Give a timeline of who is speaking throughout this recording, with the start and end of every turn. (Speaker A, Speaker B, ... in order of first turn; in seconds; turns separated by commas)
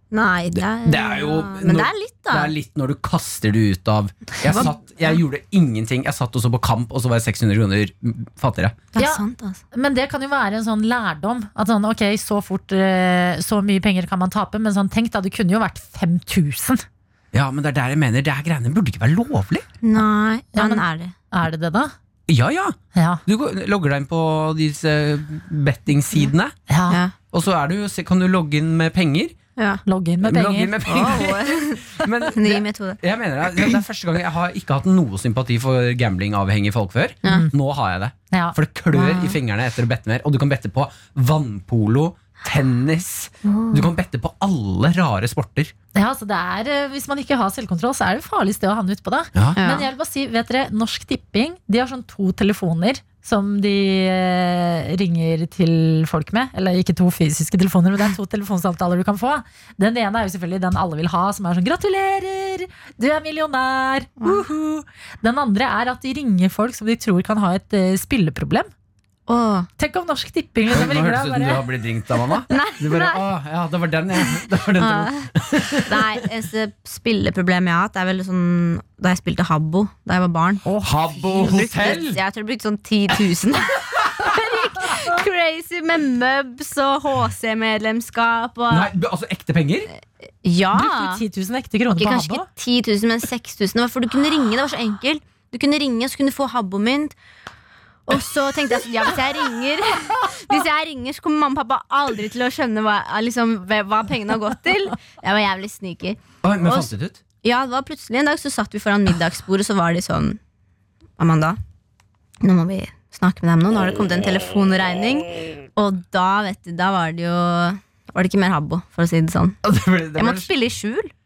Speaker A: 0.1-2.5, Speaker B: 0.6-8.8, Speaker A: 4.5-5.2, Speaker A: 8.9-9.6, Speaker C: 9.7-16.8, Speaker B: 17.3-19.7, Speaker A: 19.8-21.1, Speaker C: 20.6-21.9, Speaker B: 22.3-26.6, Speaker C: 22.9-23.2, Speaker C: 26.7-27.0, Speaker B: 27.3-29.4, Speaker A: 29.6-29.8, Speaker C: 29.9-30.8, Speaker B: 30.2-45.7, Speaker A: 30.9-33.0, Speaker C: 37.3-37.5, Speaker A: 38.9-39.4, Speaker A: 43.5-43.9, Speaker C: 46.0-68.7, Speaker B: 49.4-49.6, Speaker A: 49.6-49.9, Speaker A: 64.2-64.5, Speaker A: 69.3-69.7, Speaker C: 69.8-71.6, Speaker B: 70.7-76.2, Speaker A: 72.5-73.2, Speaker A: 74.8-80.7, Speaker C: 80.7-81.5, Speaker B: 80.8-82.2, Speaker A: 81.3-88.9, Speaker B: 84.0-84.3, Speaker B: 88.7-89.9, Speaker A: 90.4-91.2, Speaker C: 90.7-92.5, Speaker A: 92.0-97.2, Speaker A: 98.1-106.9, Speaker B: 106.4-107.2, Speaker A: 107.4-110.4, Speaker A: 111.2-111.6, Speaker A: 112.4-119.6, Speaker B: 119.6-120.5, Speaker A: 120.2-121.1